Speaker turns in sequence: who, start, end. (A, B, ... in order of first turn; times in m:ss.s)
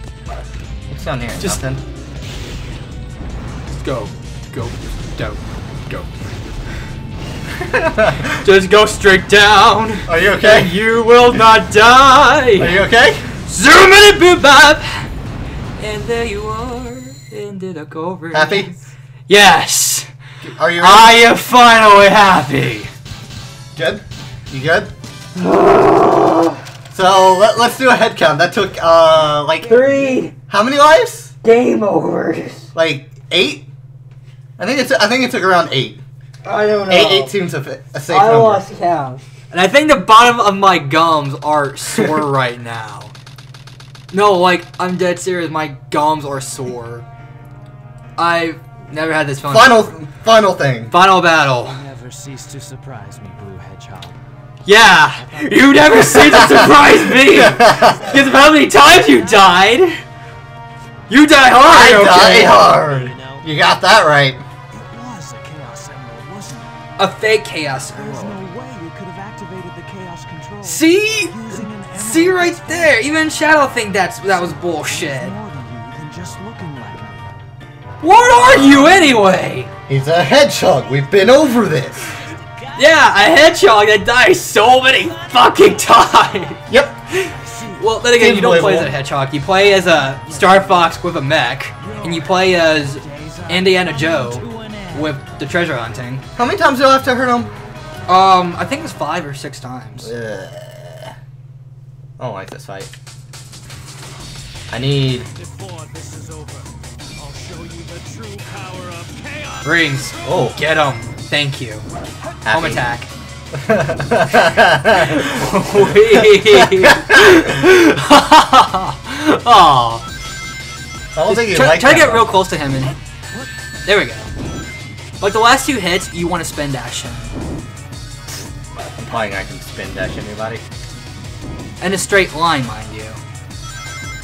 0:00.9-0:01.8 A
0:03.7-0:06.1 B
0:07.6-0:08.4 A
0:08.3-0:12.8 B
0:10.0-0:10.8 A
0:12.6-0:13.3 A
0:13.4-0:15.1 B
0:15.8-0:18.8 B
0:18.3-0:18.7 A
0:19.3-0:20.1 B
0:20.4-0:21.3 A
0:20.8-0:22.9 B
0:23.7-0:24.9 A
0:25.4-0:26.6 B
0:26.9-0:29.8 A
0:29.6-0:30.3 B
0:30.5-0:31.3 A
0:31.4-0:32.7 B
0:32.7-0:33.7 A
0:34.6-0:36.0 A
0:36.4-0:37.3 B
0:36.9-0:38.6 A
0:38.1-0:43.1 B
0:44.1-0:47.0 B
0:48.2-0:49.9 B
0:49.5-0:50.9 A
0:50.9-0:51.8 B
0:51.6-0:54.2 C
0:54.6-1:00.0 B
0:55.1-0:56.8 C
0:56.4-0:56.7 A
0:57.2-0:58.1 A
0:57.6-0:58.2 C
1:01.1-1:02.6 B
1:01.6-1:04.4 A
1:02.4-1:03.4 C
1:04.7-1:06.7 C
1:07.0-1:08.4 B
1:07.9-1:13.0 C
1:10.6-1:15.3 B
1:14.2-1:17.4 C
1:18.0-1:19.7 B
1:18.5-1:19.2 C
1:19.9-1:22.1 A
1:22.2-1:23.6 C
1:22.7-1:36.2 B
1:25.0-1:26.2 C
1:26.7-1:26.9 A
1:27.2-1:28.0 C
1:28.1-1:28.9 A
1:29.9-1:31.0 C
1:31.8-1:35.2 C
1:36.4-1:37.5 A
1:38.1-1:40.1 B
1:40.0-1:41.1 A
1:42.2-1:42.9 A
1:44.7-1:45.3 A
1:45.3-1:50.0 C
1:49.6-1:51.8 B
1:50.2-1:50.6 A
1:52.4-1:52.8 A
1:52.5-1:53.1 B
1:53.5-1:57.5 A
1:55.0-2:00.0 B
2:01.1-2:02.4 A
2:01.3-2:03.0 B
2:03.8-2:04.3 B
2:05.2-2:07.3 B
2:08.9-2:10.6 A
2:11.8-2:13.2 B